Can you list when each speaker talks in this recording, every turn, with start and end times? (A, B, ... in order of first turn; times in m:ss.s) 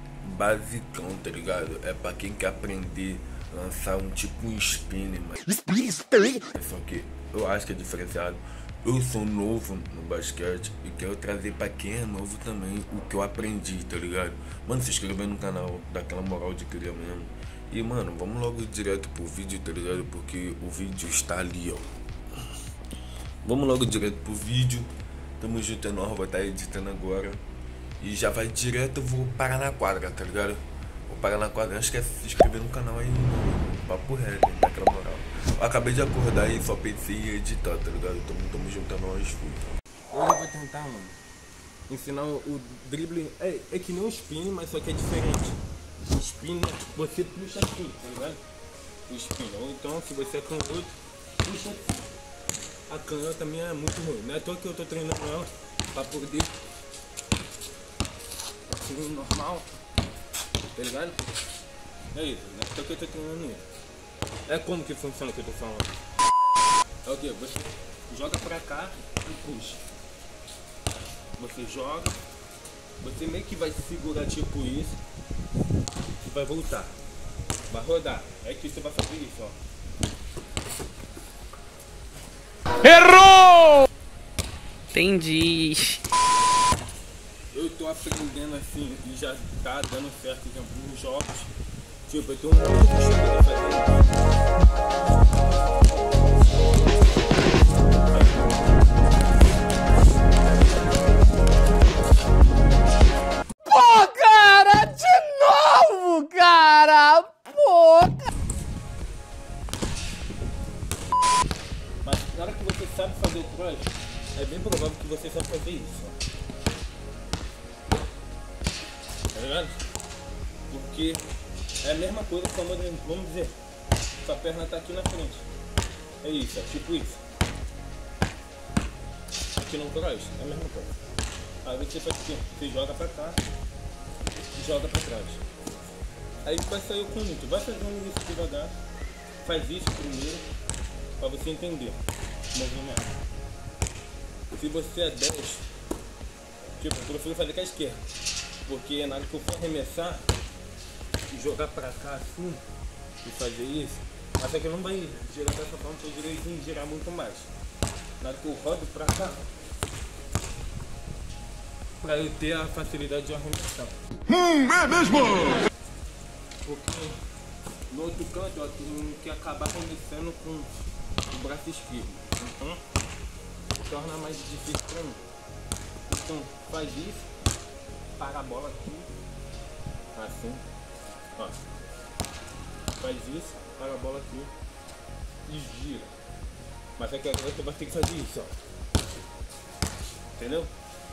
0:00.2-0:05.6 A
0:05.7-0:06.2 B
0:06.3-0:21.9 A
0:23.4-0:27.4 A
0:28.0-0:39.6 A
0:40.1-0:41.2 C
0:41.9-0:48.4 C
0:49.1-0:51.9 C
0:52.9-0:56.5 C
0:58.7-0:59.7 C
1:00.7-1:01.2 C
1:02.1-1:03.6 C
1:04.5-1:05.9 C
1:07.0-1:09.8 C
1:11.4-1:12.2 C
1:13.0-1:15.0 C
1:16.2-1:16.9 C
1:17.7-1:19.6 C
1:22.8-1:23.8 B
1:25.0-1:26.0 B
1:27.5-1:31.5 C
1:32.0-1:34.0 C
1:43.7-1:48.2 B
1:52.0-1:56.2 C
1:59.3-1:59.8 C
2:00.7-2:01.3 C
2:01.8-2:03.6 C
2:04.2-2:05.4 C
2:06.2-2:07.2 C
2:09.6-2:10.9 C
2:11.6-2:13.4 C
2:14.5-2:15.4 C
2:16.4-2:18.8 C
2:19.4-2:20.5 C
2:21.2-2:22.0 C
2:22.5-2:23.1 C
2:24.5-2:25.7 C
2:26.8-2:28.1 C
2:28.6-2:30.3 C
2:31.3-2:32.6 C
2:33.2-2:37.5 C
2:38.2-2:39.4 C
2:42.0-2:44.0 C
2:46.6-2:47.2 C
2:47.9-2:50.7 C
2:51.3-2:52.8 C
2:53.8-2:55.2 C
2:56.1-2:57.3 C
2:58.2-2:59.1 C
3:00.1-3:00.6 C
3:03.0-3:04.5 C
3:05.4-3:06.1 C
3:07.0-3:08.5 C
3:10.4-3:10.7 C